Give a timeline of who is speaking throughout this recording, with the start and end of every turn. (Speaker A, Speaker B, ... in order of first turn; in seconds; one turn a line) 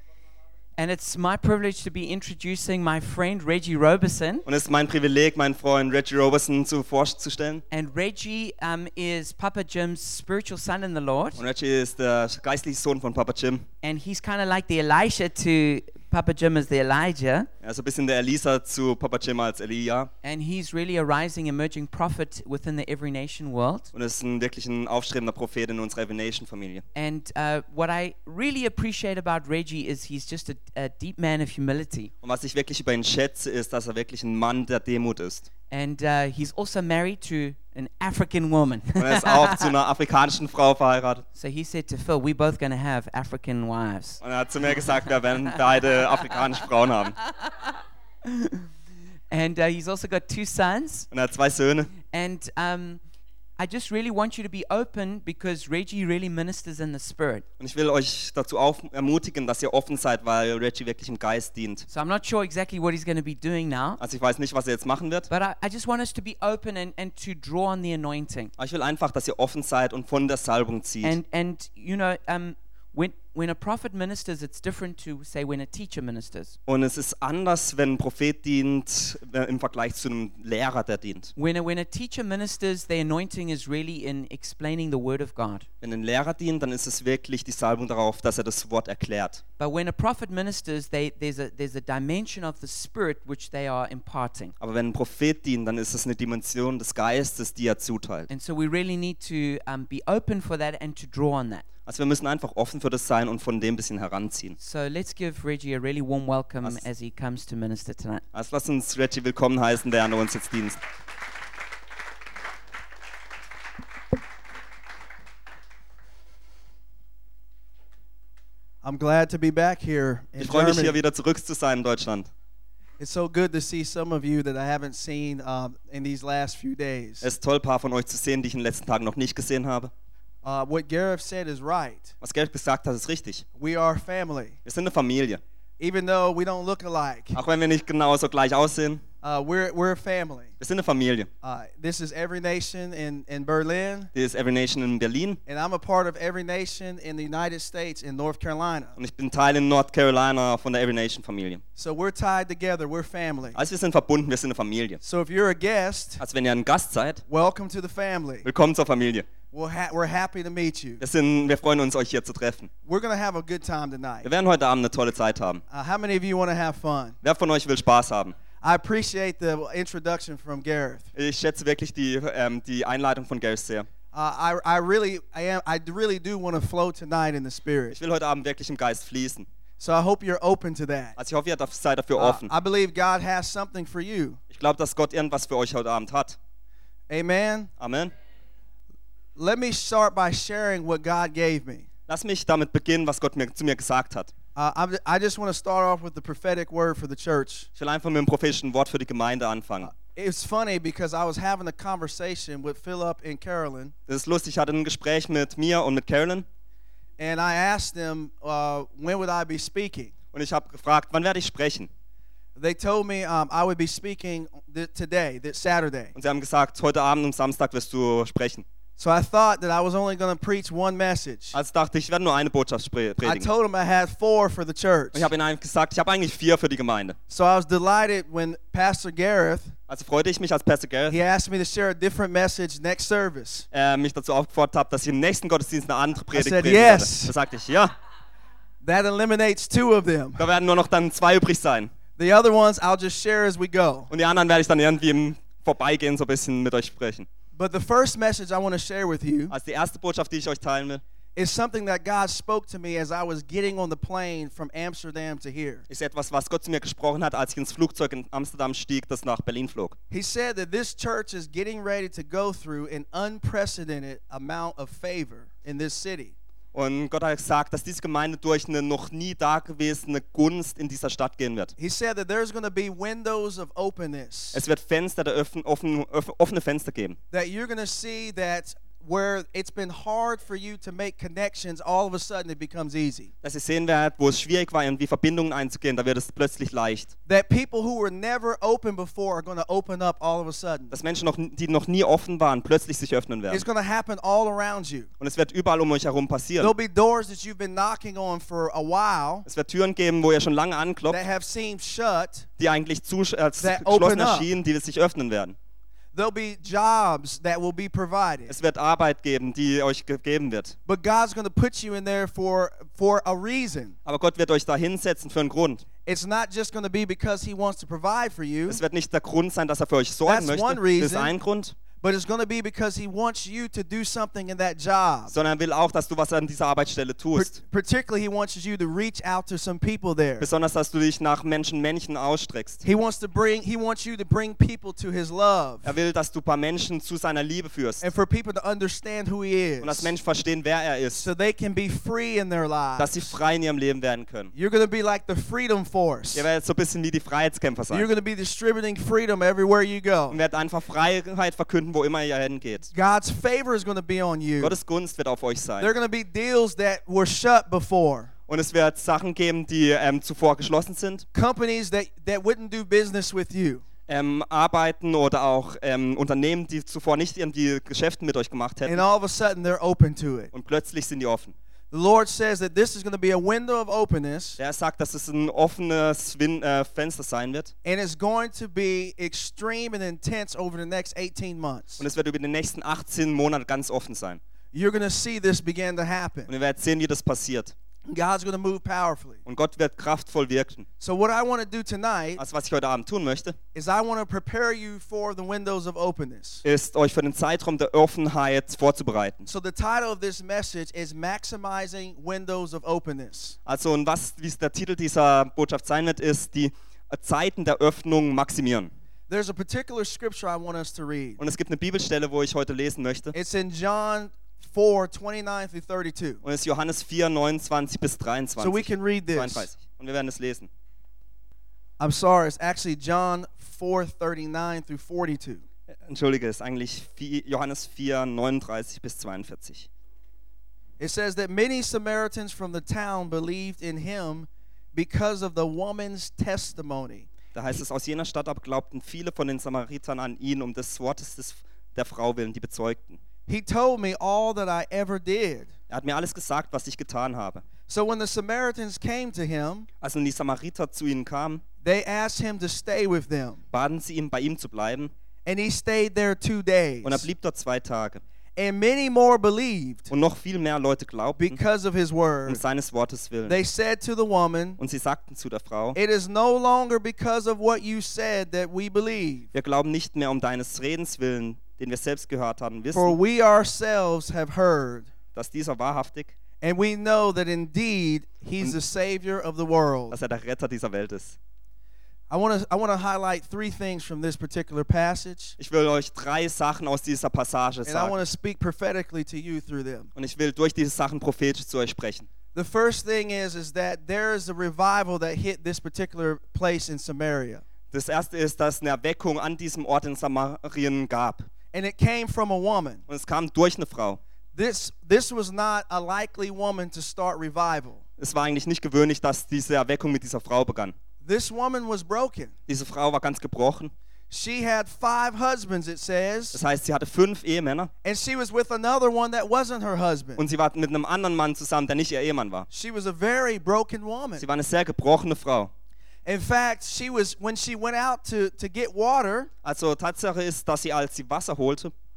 Speaker A: 0.8-4.5
Speaker B: 4.5-7.6
Speaker A: 7.7-11.4
Speaker B: 11.4-13.7
Speaker A: 13.8-17.5
Speaker B: 17.6-20.1
Speaker A: 20.2-23.9
Speaker B: 23.9-26.8
Speaker A: 26.9-32.1
Speaker B: 32.2-35.5
Speaker A: 35.7-39.7
Speaker B: 39.0-41.2
Speaker A: 41.4-44.2
Speaker B: 44.2-47.2
Speaker A: 44.8-45.4
Speaker A: 47.3-48.6
Speaker A: 49.3-51.1
Speaker B: 51.1-51.9
Speaker A: 52.1-53.0
Speaker A: 53.6-57.5
Speaker B: 57.6-61.9
Speaker A: 61.9-64.0
Speaker B: 64.0-65.3
Speaker A: 65.3-68.5
Speaker B: 68.6-71.2
Speaker A: 71.0-76.6
Speaker B: 76.7-81.3
Speaker A: 81.4-85.7
Speaker B: 85.8-89.4
Speaker A: 89.6-94.5
Speaker B: 94.6-98.3
Speaker A: 98.3-101.7
Speaker B: 101.9-104.6
Speaker A: 104.6-108.2
Speaker B: 108.3-110.8
Speaker C: 118.8-121.0
Speaker B: 120.4-122.3
Speaker C: 123.0-127.3
Speaker B: 127.2-129.9
Speaker C: 130.4-132.1
Speaker B: 132.2-133.4
Speaker C: 133.6-134.6
Speaker B: 134.7-135.4
Speaker C: 135.8-137.4
Speaker B: 137.3-139.0
Speaker C: 139.2-140.5
Speaker B: 140.6-141.3
Speaker C: 141.4-144.1
Speaker B: 144.2-145.4
Speaker C: 145.5-148.9
Speaker B: 149.0-151.6
Speaker C: 151.8-153.6
Speaker B: 153.6-155.0
Speaker C: 155.0-156.2
Speaker B: 156.2-157.2
Speaker C: 157.3-158.5
Speaker B: 158.4-159.3
Speaker C: 159.5-161.0
Speaker B: 161.0-162.7
Speaker C: 162.9-164.3
Speaker B: 164.2-165.6
Speaker C: 165.7-167.2
Speaker B: 167.2-168.4
Speaker C: 168.6-171.1
Speaker B: 171.2-173.9
Speaker C: 174.1-177.9
Speaker B: 177.9-179.5
Speaker C: 179.8-181.2
Speaker B: 181.2-182.5
Speaker C: 182.2-184.4
Speaker B: 184.5-186.4
Speaker C: 187.1-187.7
Speaker B: 187.8-188.1
Speaker C: 189.4-191.9
Speaker B: 192.1-194.3
Speaker C: 194.6-197.7
Speaker B: 197.8-199.9
Speaker C: 199.8-203.9
Speaker B: 204.1-206.5
Speaker C: 207.2-210.1
Speaker B: 210.3-211.9
Speaker C: 212.6-216.1
Speaker B: 216.2-218.7
Speaker C: 219.0-221.6
Speaker B: 221.5-223.5
Speaker C: 223.2-225.3
Speaker B: 225.1-227.2
Speaker C: 227.3-229.8
Speaker B: 229.9-231.2
Speaker C: 231.1-233.7
Speaker B: 233.7-237.9
Speaker C: 236.3-237.3
Speaker C: 238.8-240.4
Speaker B: 240.4-241.9
Speaker C: 242.2-244.1
Speaker B: 244.1-247.3
Speaker C: 247.5-249.5
Speaker B: 249.5-251.0
Speaker C: 251.4-255.9
Speaker B: 255.9-260.0
Speaker C: 260.1-266.3
Speaker B: 266.7-271.7
Speaker C: 271.8-274.6
Speaker B: 274.5-277.2
Speaker C: 277.3-283.3
Speaker B: 283.4-287.1
Speaker C: 287.3-290.9
Speaker B: 290.9-293.7
Speaker C: 293.5-295.1
Speaker B: 295.2-296.7
Speaker C: 296.6-299.5
Speaker B: 299.5-301.2
Speaker C: 301.1-302.5
Speaker B: 302.6-305.6
Speaker C: 303.6-304.5
Speaker C: 306.1-308.6
Speaker B: 308.5-310.8
Speaker C: 310.9-314.0
Speaker B: 314.1-315.9
Speaker C: 316.1-318.8
Speaker B: 318.7-321.8
Speaker C: 320.3-321.3
Speaker C: 322.0-325.3
Speaker B: 325.3-327.6
Speaker C: 327.4-330.5
Speaker B: 330.4-332.9
Speaker C: 332.8-335.9
Speaker B: 335.9-338.1
Speaker C: 338.0-340.1
Speaker B: 339.8-341.3
Speaker C: 341.1-343.3
Speaker B: 343.0-344.5
Speaker C: 344.5-346.5
Speaker B: 346.3-348.1
Speaker C: 347.9-350.4
Speaker B: 350.3-352.9
Speaker C: 352.9-354.8
Speaker B: 354.6-355.9
Speaker C: 355.8-358.3
Speaker B: 358.5-361.2
Speaker C: 361.3-363.8
Speaker B: 364.1-369.1
Speaker C: 368.9-370.5
Speaker B: 370.5-371.6
Speaker C: 371.9-374.6
Speaker B: 374.6-377.7
Speaker C: 377.9-382.0
Speaker B: 382.0-384.4
Speaker C: 384.7-386.5
Speaker B: 386.5-387.8
Speaker C: 388.1-389.4
Speaker B: 389.5-390.9
Speaker C: 391.0-392.4
Speaker B: 392.4-393.6
Speaker C: 393.7-396.6
Speaker B: 396.6-399.5
Speaker C: 399.5-403.6
Speaker B: 403.7-408.9
Speaker C: 409.3-411.4
Speaker B: 411.4-413.3
Speaker C: 413.3-416.4
Speaker B: 416.4-420.7
Speaker C: 418.6-419.7
Speaker C: 422.0-425.6
Speaker B: 426.0-429.9
Speaker C: 431.0-437.3
Speaker B: 437.5-443.2
Speaker C: 443.5-445.7
Speaker B: 445.9-447.6
Speaker C: 447.9-449.9
Speaker B: 450.0-451.6
Speaker C: 451.8-453.6
Speaker B: 453.7-455.1
Speaker C: 455.4-457.3
Speaker B: 457.0-458.2
Speaker C: 458.6-460.1
Speaker B: 460.1-461.6
Speaker C: 461.4-462.6
Speaker B: 462.5-463.6
Speaker C: 463.5-464.8
Speaker B: 464.8-466.0
Speaker C: 465.9-469.5
Speaker B: 469.5-473.2
Speaker C: 472.9-475.1
Speaker B: 475.3-476.3
Speaker C: 476.6-480.2
Speaker B: 480.1-481.4
Speaker C: 482.3-485.6
Speaker B: 485.6-488.2
Speaker C: 487.9-490.1
Speaker B: 490.2-492.3
Speaker C: 492.5-497.6
Speaker B: 497.9-501.5
Speaker C: 501.7-503.0
Speaker B: 503.1-504.2
Speaker C: 504.6-508.0
Speaker B: 508.2-511.0
Speaker C: 511.2-512.5
Speaker B: 512.7-513.9
Speaker C: 514.3-516.6
Speaker B: 516.5-517.9
Speaker C: 518.0-520.4
Speaker B: 520.4-522.7
Speaker C: 522.7-524.5
Speaker B: 524.4-525.7
Speaker C: 526.2-529.5
Speaker B: 529.6-531.9